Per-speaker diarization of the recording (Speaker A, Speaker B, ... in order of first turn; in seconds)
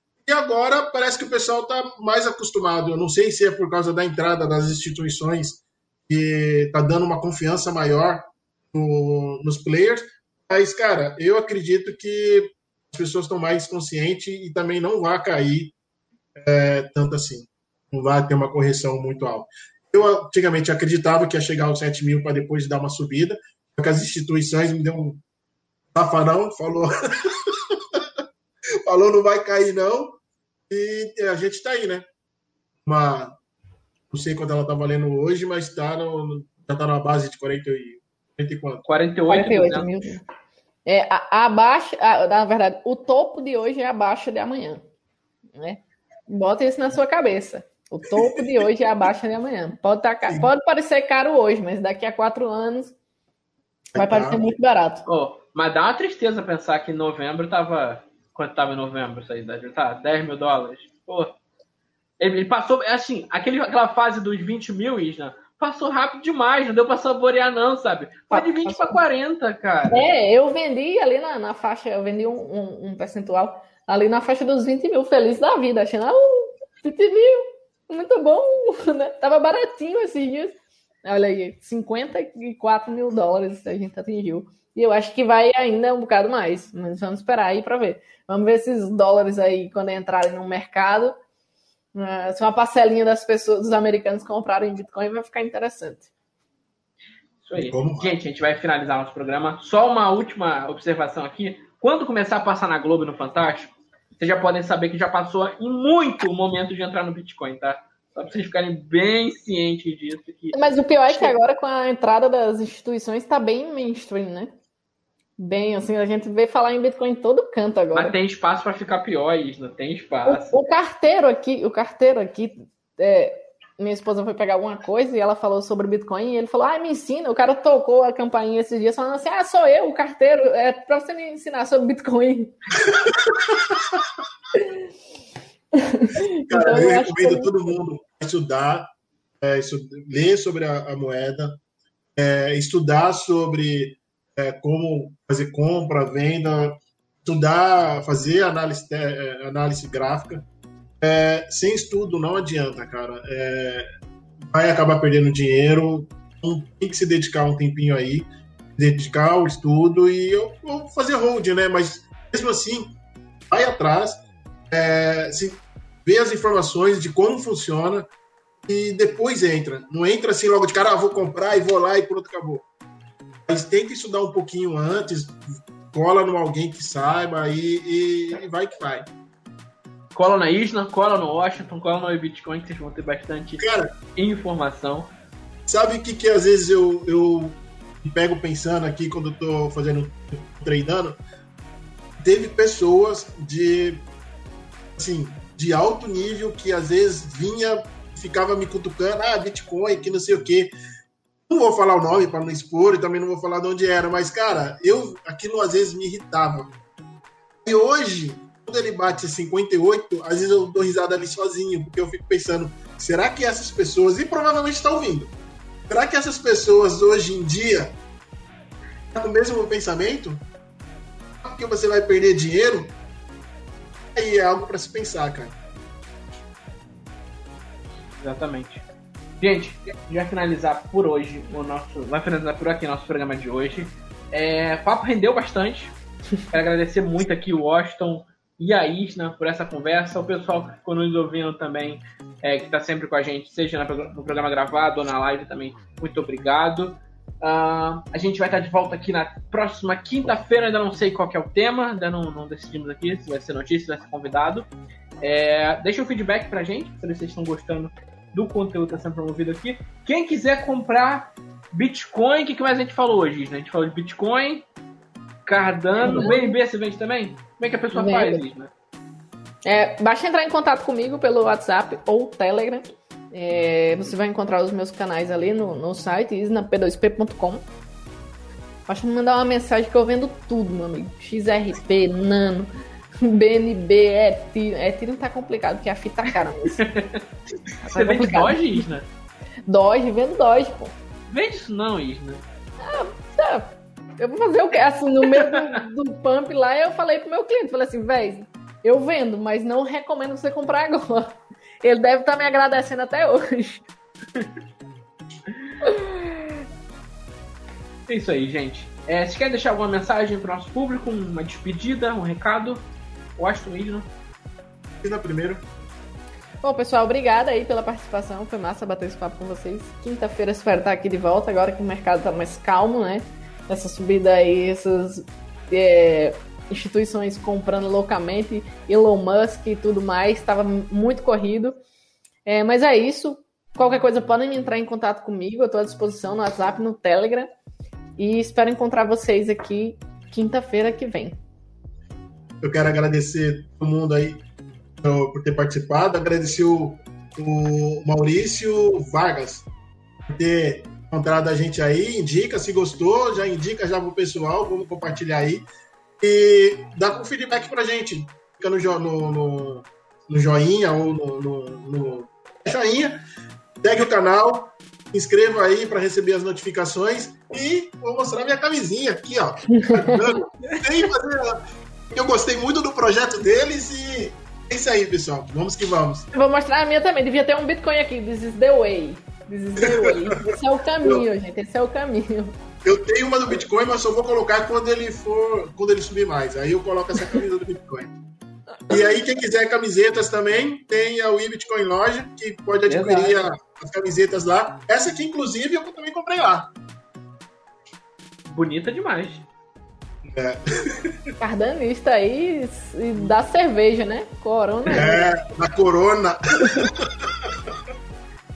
Speaker A: 0.3-15.8, 16.4-25.2, 25.9-28.1, 28.9-32.0, 32.8-33.4, 34.1-38.9, 53.9-54.4, 97.6-98.2, 132.9-134.0, 136.3-138.9, 139.4-141.6, 142.2-150.5, 151.0-153.9, 154.4-162.9, 163.5-168.1, 168.7-172.7, 173.5-175.4, 175.9-179.1, 183.6-183.9, 185.7-191.2, 192.2-194.1, 195.0-200.7, 201.5-206.7, 207.6-215.3, 215.9-218.0, 219.1-220.4, 221.4-222.9, 224.2-225.6, 315.0-315.6, 342.6-344.4, 345.0-349.7, 350.3-355.7, 356.2-363.2, 363.8-376.3, 379.8-380.5, 382.8-388.1, 388.9-396.7, 400.2-401.2, 404.9-407.7
Speaker B: 38.9-39.9, 55.1-61.4, 62.2-70.1, 97.4-111.3, 117.9-120.6, 180.2-183.7, 184.2-185.1, 228.2-228.8, 229.4-236.0, 236.5-254.7, 255.2-264.6, 265.5-268.7, 286.8-287.2, 287.9-289.1, 291.3-292.4, 295.3-295.8, 308.1-312.8, 313.4-314.1, 392.9-393.4, 398.5-399.4
Speaker C: 39.3-40.2, 40.9-44.8, 45.6-53.0, 54.0-55.0, 68.3-69.0, 69.9-91.1, 91.9-96.1, 110.5-114.5, 115.4-118.2, 120.3-132.6, 135.8-137.5, 266.0-266.6, 267.9-268.4, 269.7-277.7, 278.9-286.8, 287.8-288.9, 289.7-290.9, 292.8-303.9, 305.8-306.4, 316.6-331.8, 332.5-337.5, 338.2-341.4, 369.7-370.4, 376.3-382.5, 401.4-405.3